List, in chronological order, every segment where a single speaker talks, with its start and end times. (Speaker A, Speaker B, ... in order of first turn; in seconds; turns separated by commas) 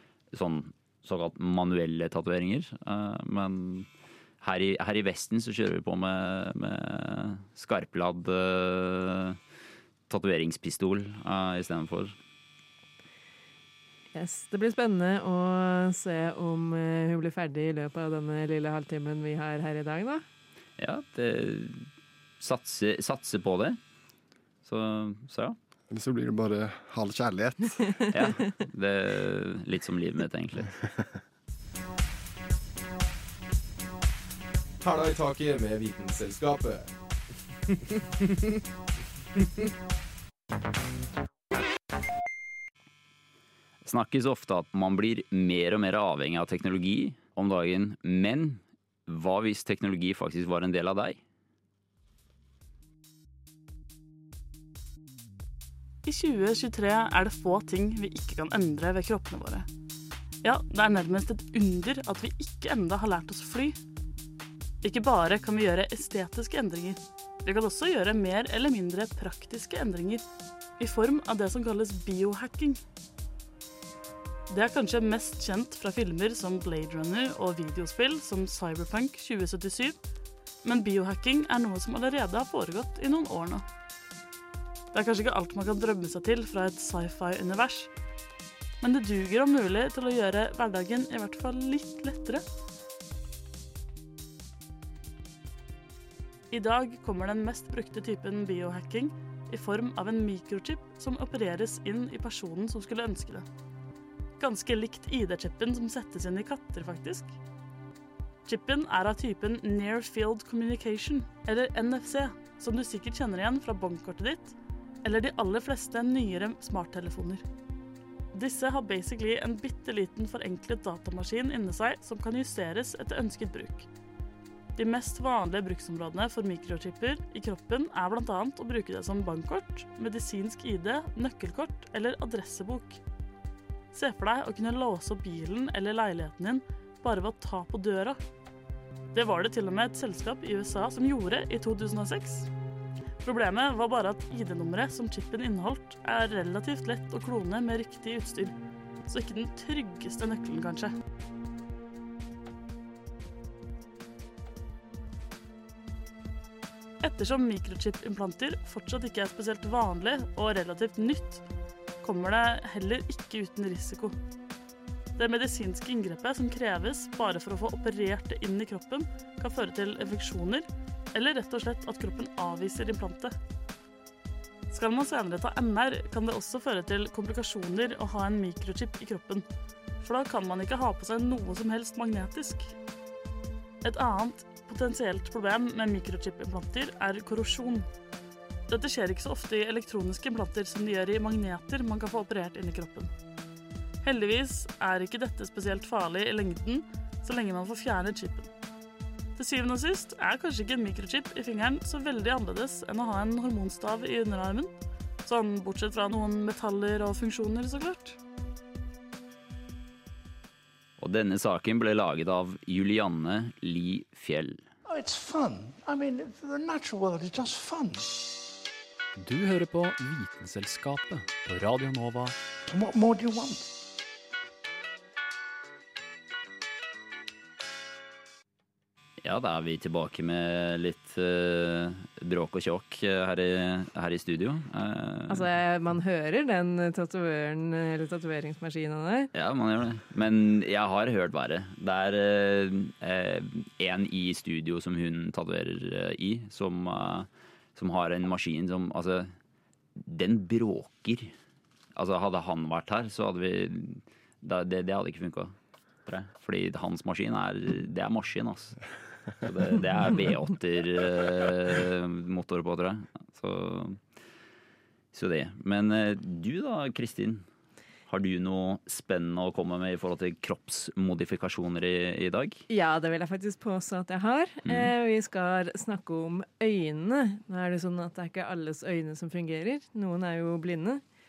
Speaker A: 0.3-3.9, Speaker A: 4.4-9.4, Speaker A: 10.1-12.1, Speaker B: 14.1-20.2, Speaker A: 20.8-21.9, Speaker A: 22.4-23.8, Speaker A: 24.6-25.6, Speaker C: 25.9-28.0, Speaker A: 28.1-30.8, Speaker D: 34.8-36.9, Speaker A: 43.8-51.2, Speaker E: 56.0-59.7, Speaker E: 60.4-63.8, Speaker E: 64.8-70.2, Speaker E: 70.8-72.8, Speaker E: 74.5-80.0, Speaker E: 80.6-83.6, Speaker E: 84.9-87.9, Speaker E: 88.8-92.4, Speaker E: 96.5-103.4, Speaker E: 104.4-107.3, Speaker E: 108.5-117.4, Speaker E: 118.3-123.9, Speaker E: 124.8-133.0, Speaker E: 133.9-138.2, Speaker E: 139.1-142.5, Speaker E: 143.2-148.5, Speaker E: 149.1-150.9, Speaker E: 157.0-161.4, Speaker E: 162.0-164.2, Speaker E: 165.2-173.3, Speaker E: 174.7-179.4, Speaker E: 180.0-182.7, Speaker E: 183.8-187.9, Speaker E: 188.7-193.1, Speaker E: 194.0-198.5, Speaker E: 199.3-204.7, Speaker E: 205.2-208.2, Speaker A: 211.0-214.6, Speaker F: 214.8-218.1, Speaker G: 219.2-222.3, Speaker F: 222.7-223.6, Speaker A: 229.2-235.5, Speaker B: 235.3-239.3, Speaker A: 239.3-249.3, Speaker A: 249.9-251.3, Speaker A: 251.9-255.5, Speaker A: 256.0-258.8, Speaker A: 259.4-264.0, Speaker A: 265.1-267.4, Speaker A: 268.1-272.6, Speaker B: 272.7-281.0, Speaker A: 274.6-274.9